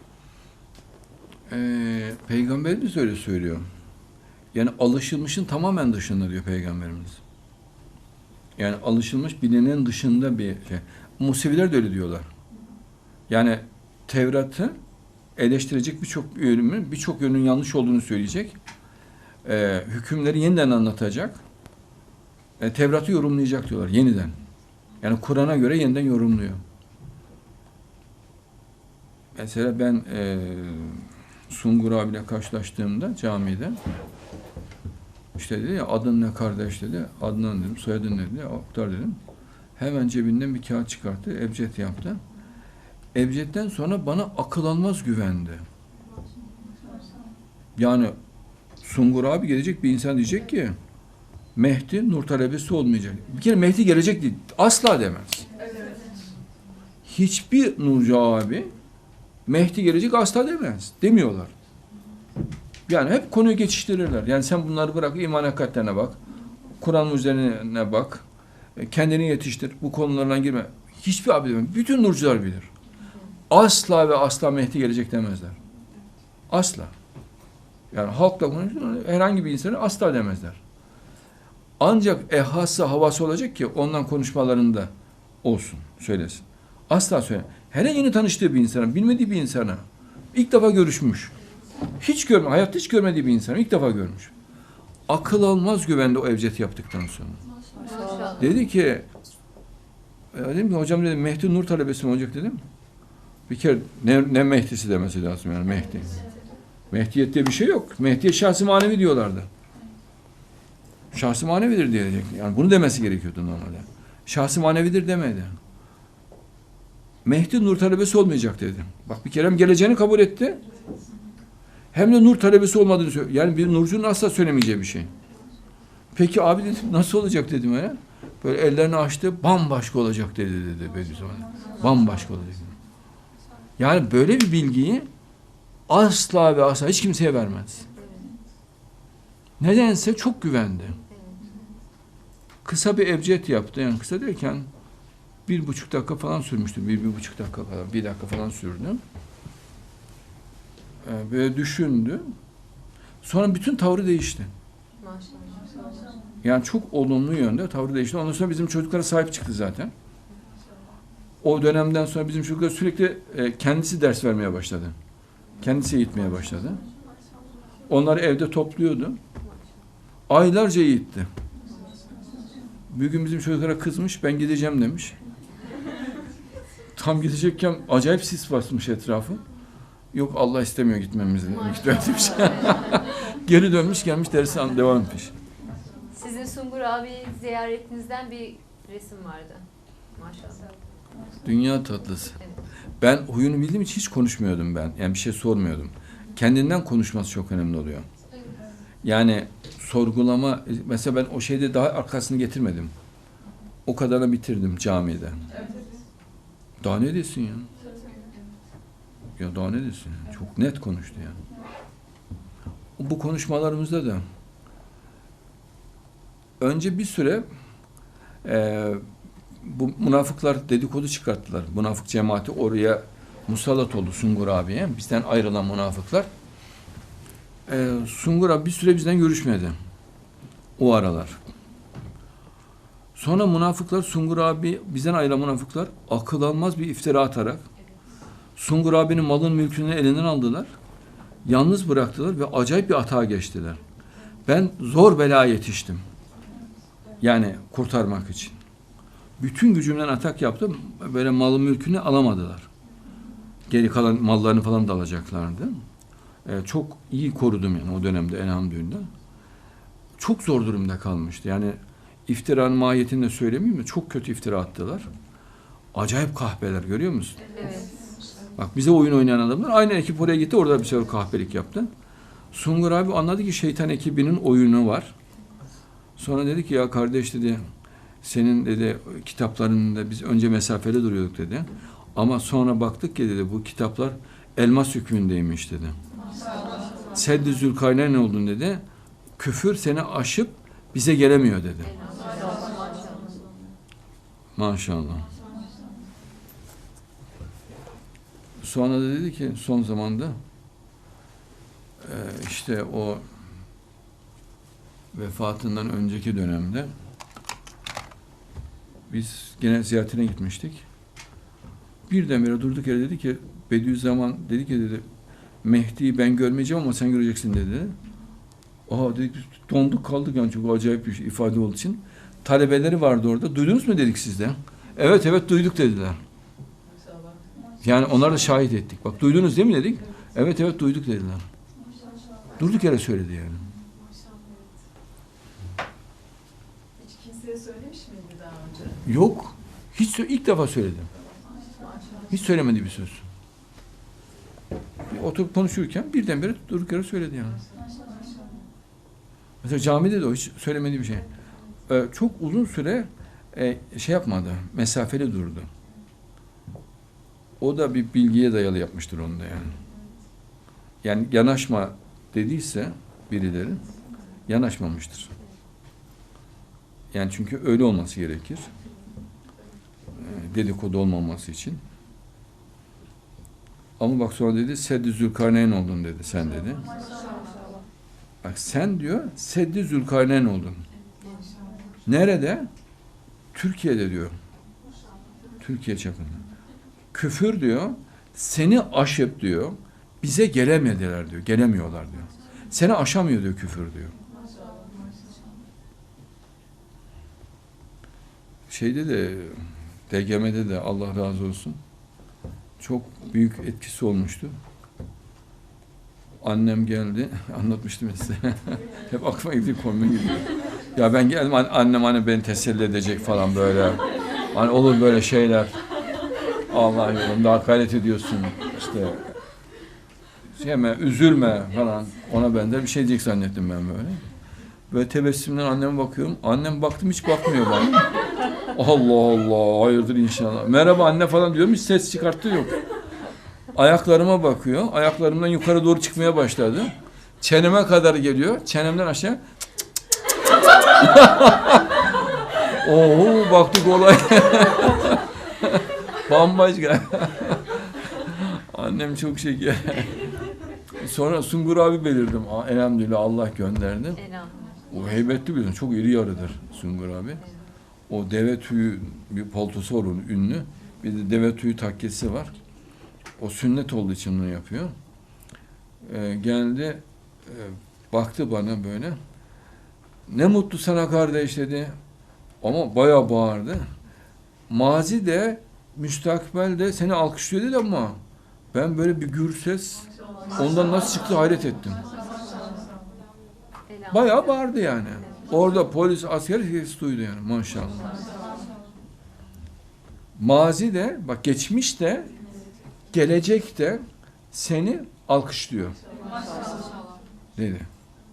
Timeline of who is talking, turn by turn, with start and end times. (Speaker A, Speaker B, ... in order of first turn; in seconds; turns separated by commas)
Speaker A: 1.5-3.6, Speaker A: 4.5-7.2, Speaker A: 8.6-12.3, Speaker A: 13.3-14.8, Speaker A: 15.4-18.6, Speaker A: 19.4-21.4, Speaker A: 22.6-24.4, Speaker A: 25.0-26.6, Speaker A: 29.4-33.8, Speaker A: 35.4-39.2, Speaker A: 39.8-42.2, Speaker A: 43.1-45.6, Speaker A: 47.8-48.1, Speaker A: 48.8-50.8, Speaker A: 51.5-55.5, Speaker A: 57.0-58.7, Speaker A: 59.5-61.5, Speaker A: 62.9-66.2, Speaker A: 66.8-68.2, Speaker A: 68.8-72.7, Speaker A: 73.5-75.6, Speaker A: 76.5-76.9, Speaker A: 77.9-80.6, Speaker A: 81.8-84.9, Speaker A: 85.4-91.3, Speaker A: 92.0-94.3, Speaker A: 95.1-97.4, Speaker B: 97.8-98.5, Speaker A: 98.4-99.1, Speaker A: 100.3-102.6, Speaker A: 103.5-106.2, Speaker A: 106.9-109.5, Speaker A: 111.1-115.6, Speaker A: 117.2-120.6, Speaker A: 121.9-125.1, Speaker A: 126.1-132.7, Speaker A: 133.8-135.1, Speaker A: 135.9-137.8, Speaker B: 137.9-138.4, Speaker A: 139.6-141.0, Speaker B: 141.1-141.4, Speaker A: 142.6-144.7, Speaker A: 145.5-149.0, Speaker A: 151.0-152.2, Speaker A: 153.2-154.5, Speaker B: 155.0-155.8, Speaker A: 156.4-159.9, Speaker A: 161.4-164.9, Speaker A: 165.6-166.8, Speaker A: 167.9-169.2, Speaker A: 170.3-171.3, Speaker A: 172.9-175.2, Speaker A: 176.9-179.4, Speaker A: 180.1-185.3, Speaker B: 181.7-183.1, Speaker B: 186.1-190.7, Speaker A: 191.4-192.4, Speaker A: 193.0-198.1, Speaker A: 199.0-202.9, Speaker A: 203.9-205.4, Speaker A: 206.8-207.7, Speaker A: 209.4-211.4, Speaker A: 213.0-214.2, Speaker A: 216.6-217.4, Speaker A: 218.4-219.0, Speaker A: 219.6-226.3, Speaker A: 227.7-229.8, Speaker A: 230.8-231.4, Speaker A: 233.2-237.6, Speaker A: 238.6-240.7, Speaker A: 241.4-243.8, Speaker A: 244.5-246.0, Speaker A: 247.2-248.6, Speaker A: 249.4-252.7, Speaker A: 253.7-255.8, Speaker A: 256.4-259.1, Speaker A: 260.2-265.1, Speaker A: 265.9-267.4, Speaker B: 267.4-268.0, Speaker A: 268.6-271.9, Speaker A: 272.5-275.1, Speaker A: 276.2-277.6, Speaker A: 278.2-286.0, Speaker A: 287.1-288.8, Speaker A: 289.4-291.9, Speaker B: 291.8-293.5, Speaker A: 294.6-295.3, Speaker A: 298.6-300.4, Speaker A: 302.0-303.2, Speaker A: 305.1-306.9, Speaker A: 309.1-310.8, Speaker A: 312.1-315.0, Speaker A: 315.6-318.0, Speaker A: 318.9-326.2, Speaker A: 327.8-331.4, Speaker A: 332.6-333.7, Speaker C: 337.0-338.9, Speaker A: 339.0-341.1, Speaker A: 342.3-343.2, Speaker A: 345.1-347.6, Speaker A: 349.6-351.3, Speaker A: 351.9-355.7, Speaker A: 357.6-359.8, Speaker A: 361.0-363.8, Speaker A: 364.5-365.3, Speaker A: 367.1-368.7, Speaker A: 370.1-371.8, Speaker A: 374.0-376.9, Speaker A: 378.4-380.9, Speaker A: 382.1-382.7, Speaker A: 383.5-384.4, Speaker A: 385.6-386.4, Speaker A: 387.1-394.1, Speaker A: 398.7-401.8, Speaker A: 402.8-404.5, Speaker A: 406.4-415.8, Speaker A: 416.7-419.3, Speaker A: 420.6-424.2, Speaker A: 424.9-428.2, Speaker A: 428.7-432.8, Speaker A: 433.7-439.4, Speaker A: 441.0-450.3, Speaker A: 451.0-454.2, Speaker B: 454.2-454.6, Speaker A: 454.9-457.4, Speaker A: 458.1-462.6, Speaker A: 463.4-464.9, Speaker A: 466.0-469.2, Speaker A: 470.3-471.9, Speaker A: 472.6-473.8, Speaker A: 474.7-478.2, Speaker A: 478.7-482.0, Speaker B: 483.9-484.6, Speaker A: 484.1-488.1, Speaker A: 490.4-492.3, Speaker A: 493.1-496.0, Speaker A: 497.6-497.9